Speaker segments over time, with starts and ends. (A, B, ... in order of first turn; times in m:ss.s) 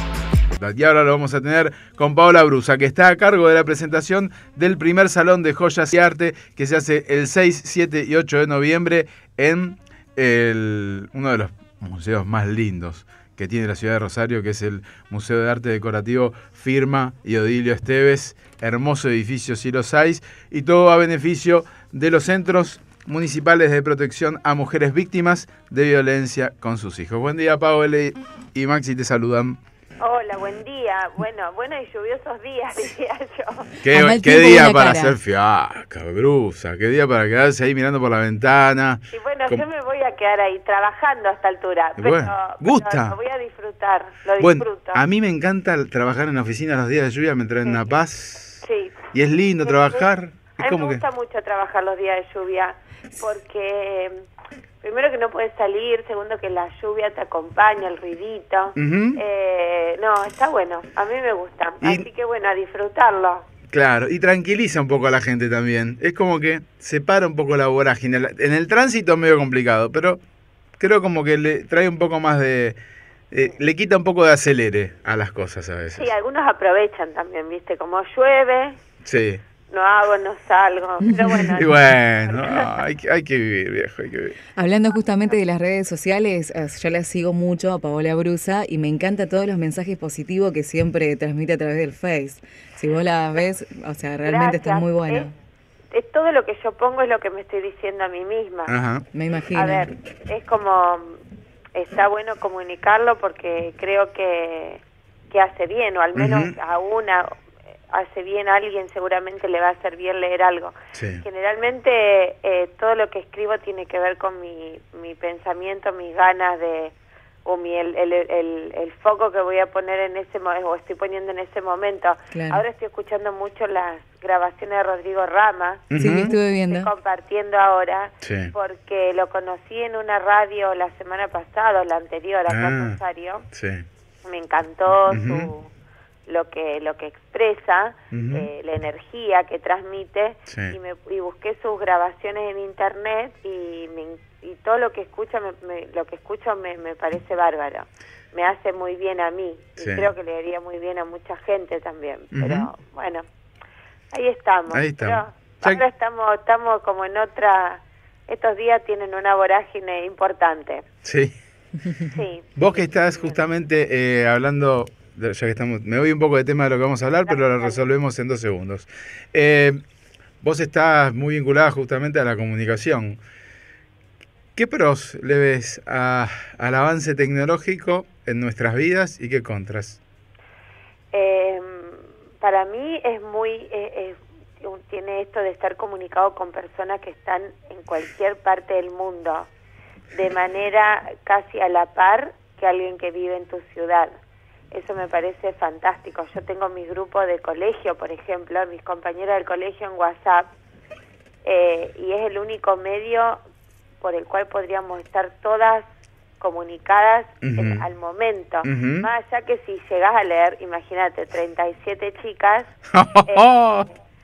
0:00.6-0:29.6 A
0:30.0-0:33.7 B
0:33.8-0:39.6 A
0:33.8-0:35.2 C
0:39.1-0:45.0 B
0:42.0-0:43.2 A
0:44.4-0:51.0 A
0:48.6-0:49.1 B
0:49.6-0:50.0 B
0:50.6-0:54.2 B
0:54.8-1:03.4 B
0:58.8-0:59.2 A
1:01.8-1:02.1 A
1:03.7-1:10.2 A
1:10.8-1:12.8 A
1:13.3-1:16.1 A
1:16.0-1:18.8 B
1:19.0-1:19.4 A
1:19.7-1:21.7 B
1:21.2-1:21.5 C
1:21.6-1:24.4 A
1:22.2-1:22.7 B
1:24.6-1:35.3 C
1:34.2-1:35.3 B
1:35.9-1:38.7 B
1:38.7-1:39.0 A
1:39.1-1:39.9 C
1:39.5-1:41.2 B
1:41.7-1:47.4 B
1:46.1-1:46.5 A
1:47.9-1:56.9 B
1:50.9-1:51.2 A
1:57.4-2:13.5 B
2:02.3-2:02.6 C
2:05.9-2:06.3 A
2:06.0-2:06.9 C
2:08.2-2:08.5 A
2:12.5-2:13.0 A
2:13.5-2:13.8 A
2:14.2-2:15.7 B
2:15.1-2:15.5 A
2:16.3-2:33.2 B
2:18.1-2:18.5 A
2:20.5-2:20.8 A
2:29.8-2:30.1 A
2:32.3-2:32.7 A
2:34.1-2:40.8 B
2:34.7-2:35.8 A
2:41.0-2:41.3 A
2:42.0-2:43.4 B
2:42.6-2:49.8 A
2:47.3-2:47.9 B
2:50.4-2:53.2 A
2:54.6-3:00.0 A
3:01.1-3:09.5 B
3:10.1-3:14.1 B
3:14.7-3:20.5 B
3:21.4-3:23.4 B
3:24.0-3:25.8 B
3:26.4-3:32.7 B
3:27.4-3:27.9 A
3:28.6-3:29.1 A
3:32.9-3:33.9 A